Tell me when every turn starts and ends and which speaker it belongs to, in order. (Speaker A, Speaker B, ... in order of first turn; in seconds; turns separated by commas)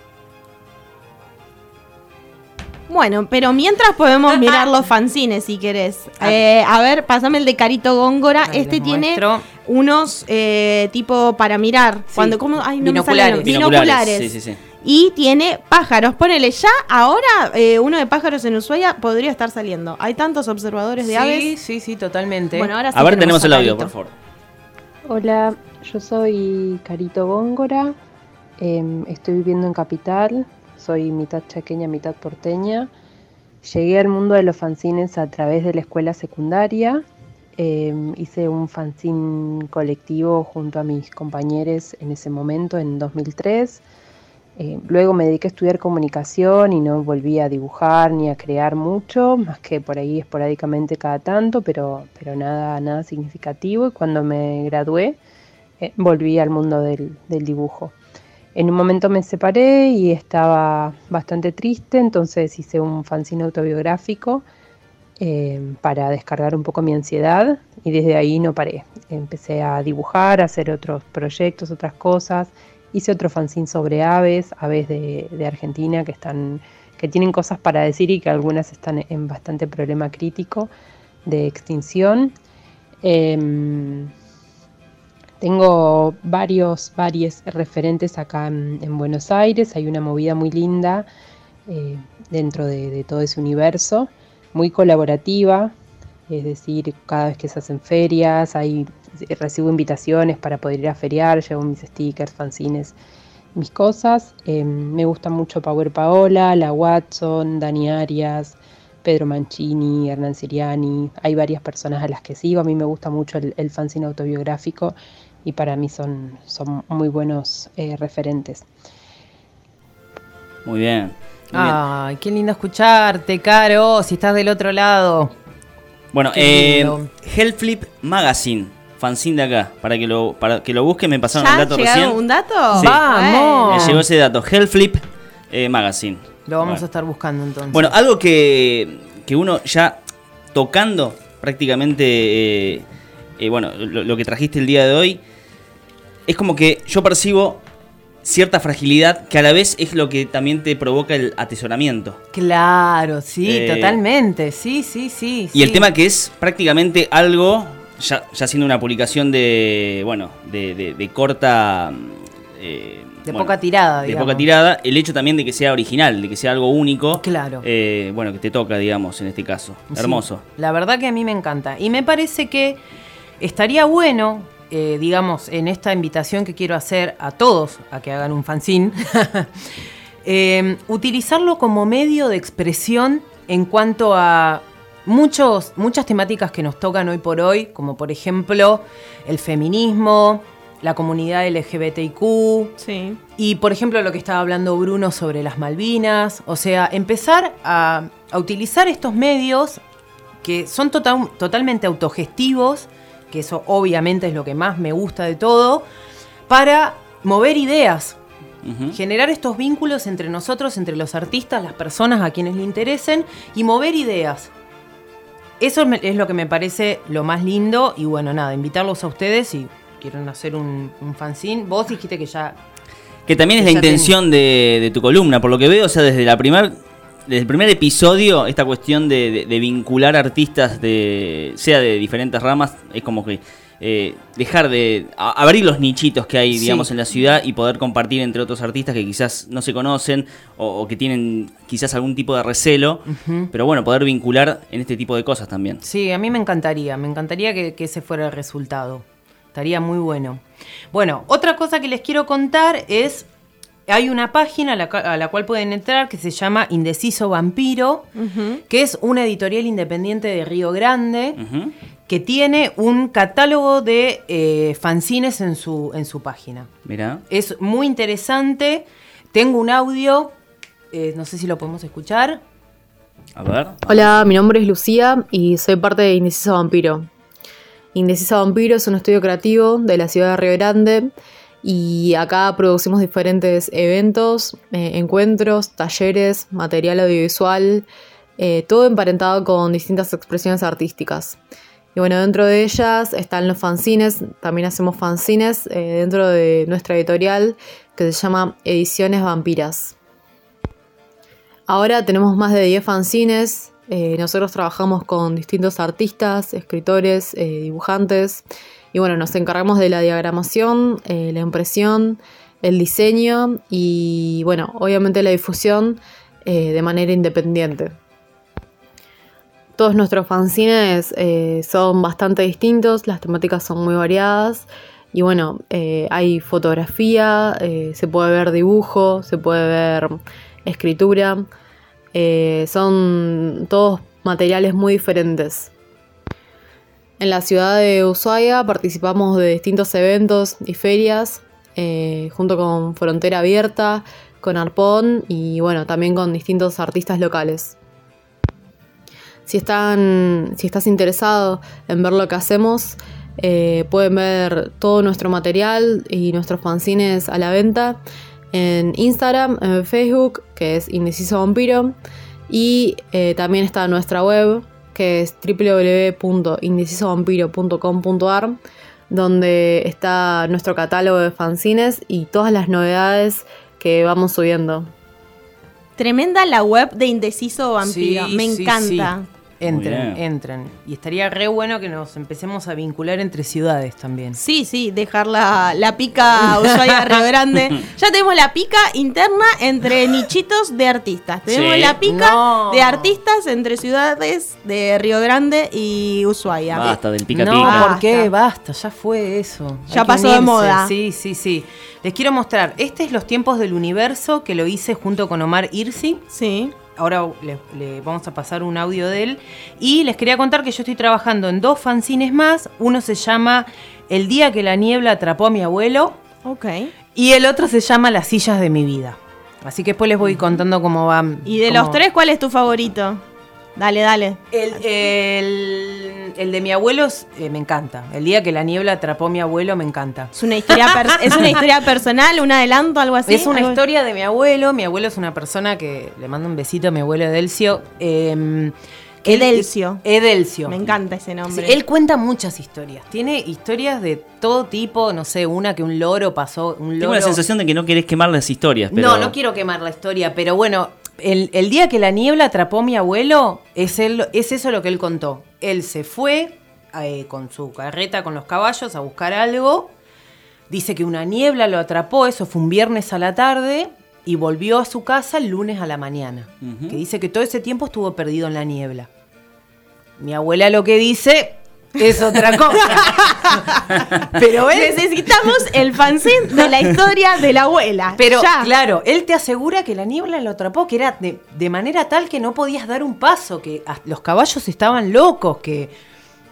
Speaker A: 2.9-21.6, Speaker B: 8.4-9.5, Speaker B: 12.1-13.5, Speaker C: 13.4-14.6, Speaker B: 21.0-22.7, Speaker A: 22.5-23.9, Speaker C: 22.9-24.1, Speaker D: 25.1-27.9, Speaker D: 28.6-32.9, Speaker D: 33.6-37.0, Speaker D: 37.6-43.8, Speaker D: 44.6-55.2, Speaker D: 55.8-58.0, Speaker D: 58.5-64.5, Speaker D: 65.2-80.7, Speaker D: 81.3-82.3, Speaker D: 83.0-84.1, Speaker D: 85.4-91.1, Speaker D: 91.7-95.8, Speaker D: 96.3-103.0, Speaker D: 103.5-118.7, Speaker C: 120.7-121.8, Speaker B: 121.5-125.3, Speaker C: 126.1-132.2, Speaker B: 126.3-127.1, Speaker A: 131.3-134.0, Speaker B: 132.8-134.0, Speaker C: 133.7-136.8, Speaker B: 136.5-138.0, Speaker C: 137.7-140.0, Speaker C: 140.5-142.8, Speaker C: 143.4-145.2, Speaker C: 146.3-147.6, Speaker C: 148.2-152.2, Speaker B: 152.3-155.9, Speaker C: 153.4-154.0, Speaker C: 155.5-170.4, Speaker B: 163.2-164.5, Speaker B: 167.2-167.7, Speaker B: 169.9-172.8, Speaker B: 173.4-179.7, Speaker B: 180.2-192.7, Speaker A: 192.8-193.2, Speaker B: 193.4-199.8, Speaker B: 200.4-205.8, Speaker B: 206.5-208.2, Speaker C: 208.6-209.0, Speaker B: 208.9-214.5, Speaker B: 215.6-222.6, Speaker C: 223.3-245.8, Speaker B: 223.6-224.2, Speaker B: 236.5-236.9, Speaker B: 243.1-243.5, Speaker B: 245.8-253.3, Speaker B: 253.9-258.1, Speaker A: 258.2-258.6, Speaker B: 258.7-261.4, Speaker C: 261.4-261.7, Speaker B: 262.1-266.7, Speaker C: 266.9-267.2, Speaker B: 267.3-270.4, Speaker B: 270.9-272.4, Speaker C: 273.4-274.2, Speaker E: 273.9-277.1, Speaker E: 277.9-281.1, Speaker E: 281.6-287.9, Speaker E: 288.4-291.4, Speaker E: 291.9-300.0, Speaker E: 301.7-318.0, Speaker E: 319.8-331.5, Speaker E: 332.1-335.7, Speaker E: 337.2-347.8, Speaker E: 349.5-358.0, Speaker E: 358.5-362.0, Speaker E: 362.5-374.9, Speaker A: 376.0-379.3, Speaker B: 377.8-384.4, Speaker C: 379.7-380.2, Speaker A: 384.4-397.0, Speaker B: 386.4-387.1, Speaker C: 391.5-392.0, Speaker B: 392.0-393.2, Speaker C: 396.7-397.9, Speaker B: 397.4-406.2, Speaker A: 397.6-398.3, Speaker A: 399.9-400.9, Speaker A: 406.3-406.8, Speaker B: 406.9-416.2, Speaker A: 416.4-416.9, Speaker B: 417.1-422.0, Speaker A: 421.4-423.2, Speaker A: 423.8-425.1, Speaker B: 424.5-430.3, Speaker A: 430.4-433.8, Speaker B: 430.8-431.5, Speaker B: 433.3-441.0, Speaker A: 439.2-440.0, Speaker A: 440.7-441.8, Speaker B: 441.5-447.4, Speaker C: 447.0-449.4, Speaker B: 448.9-459.9, Speaker B: 460.7-469.1, Speaker C: 466.6-467.0, Speaker B: 470.2-473.3, Speaker A: 472.0-478.7, Speaker B: 474.4-475.7, Speaker B: 478.2-485.9